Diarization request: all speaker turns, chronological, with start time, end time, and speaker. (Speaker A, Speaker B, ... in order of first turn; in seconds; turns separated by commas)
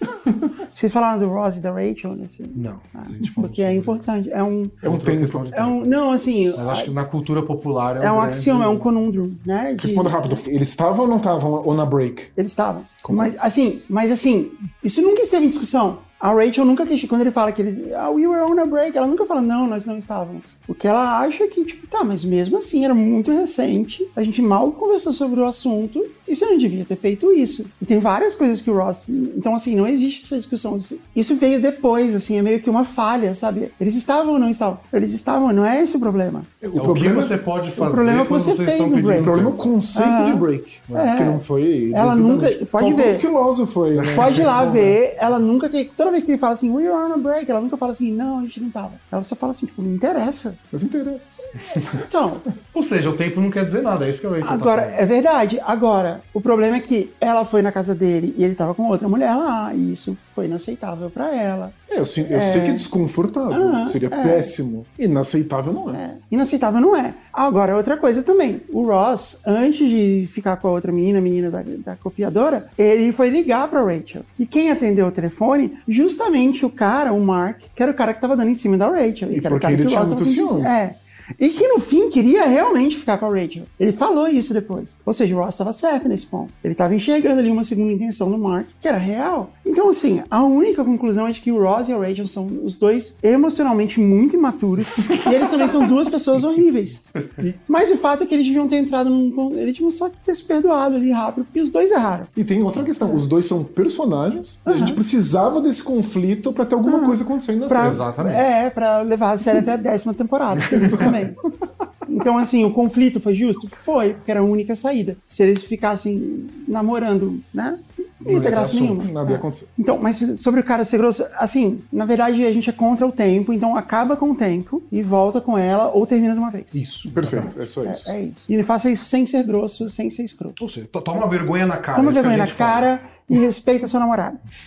Speaker A: 0.7-4.8, Speaker B: 2.5-4.0, Speaker C: 4.8-5.5, Speaker B: 4.8-6.0, Speaker A: 5.5-6.9, Speaker B: 6.5-8.9, Speaker A: 8.0-10.4, Speaker C: 9.8-12.3, Speaker A: 12.3-36.5, Speaker C: 13.0-13.4, Speaker C: 36.6-37.4, Speaker B: 36.8-39.6, Speaker A: 37.8-39.4, Speaker C: 39.1-44.9, Speaker A: 39.9-43.3, Speaker B: 44.0-44.9, Speaker A: 44.1-50.6, Speaker C: 50.7-51.3, Speaker A: 51.7-52.4, Speaker B: 52.7-55.0, Speaker A: 54.4-62.9, Speaker C: 61.9-66.0, Speaker A: 63.5-64.5, Speaker A: 65.9-97.0, Speaker C: 79.3-80.8, Speaker C: 95.1-95.8, Speaker A: 97.7-102.3, Speaker C: 102.3-108.0, Speaker A: 104.7-105.0, Speaker A: 106.8-111.4, Speaker B: 107.8-108.5, Speaker C: 110.7-111.2, Speaker A: 112.0-126.8, Speaker B: 118.2-119.0, Speaker C: 119.0-119.7, Speaker B: 126.7-127.5, Speaker C: 127.0-128.1, Speaker A: 127.8-130.6, Speaker B: 130.6-132.9, Speaker A: 131.9-134.4